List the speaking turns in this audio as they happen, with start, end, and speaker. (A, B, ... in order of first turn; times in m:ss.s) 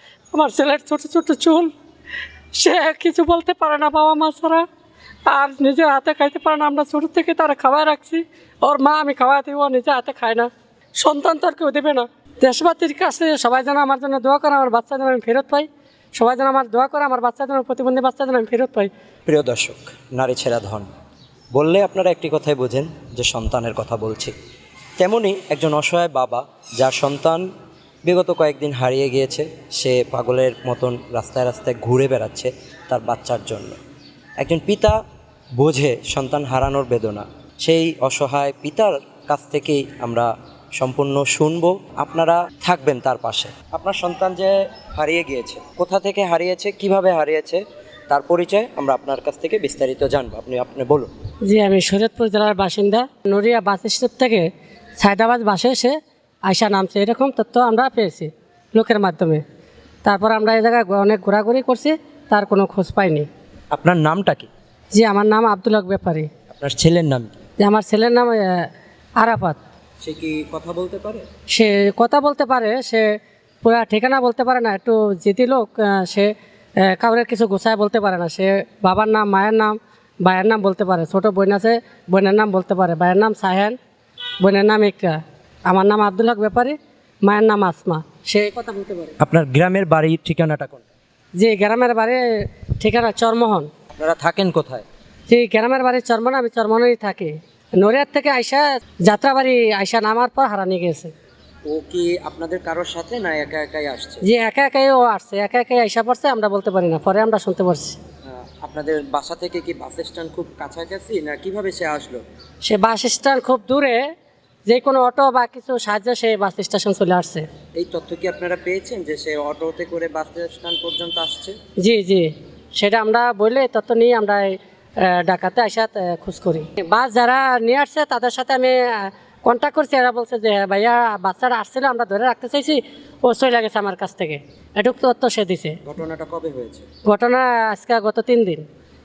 0:00.3-0:01.7 A
0:02.5-0:04.6 A
0:05.3-0:18.9 A
0:19.3-0:20.9 B
0:21.5-0:24.3 B
0:25.0-0:27.5 B
0:28.0-0:33.8 B
0:34.4-0:35.0 B
0:35.6-0:51.1 B
0:51.5-0:56.0 A
0:56.5-0:59.4 A
1:00.0-1:03.3 A
1:03.7-1:04.5 B
1:04.9-1:06.3 A
1:06.5-1:07.3 B
1:07.6-1:08.7 A
1:09.2-1:09.6 A
1:10.0-1:11.2 B
1:11.5-1:13.1 A
1:13.6-1:23.8 A
1:24.4-1:29.2 A
1:29.2-1:30.8 B
1:31.4-1:33.7 A
1:33.9-1:34.8 B
1:35.3-1:41.1 A
1:41.7-1:44.2 B
1:44.2-1:48.0 A
1:48.3-1:52.2 B
1:52.6-1:54.0 A
1:54.7-1:57.5 A
1:57.8-2:01.6 B
2:01.8-2:15.8 A
2:15.8-2:16.9 B
2:17.0-2:18.7 A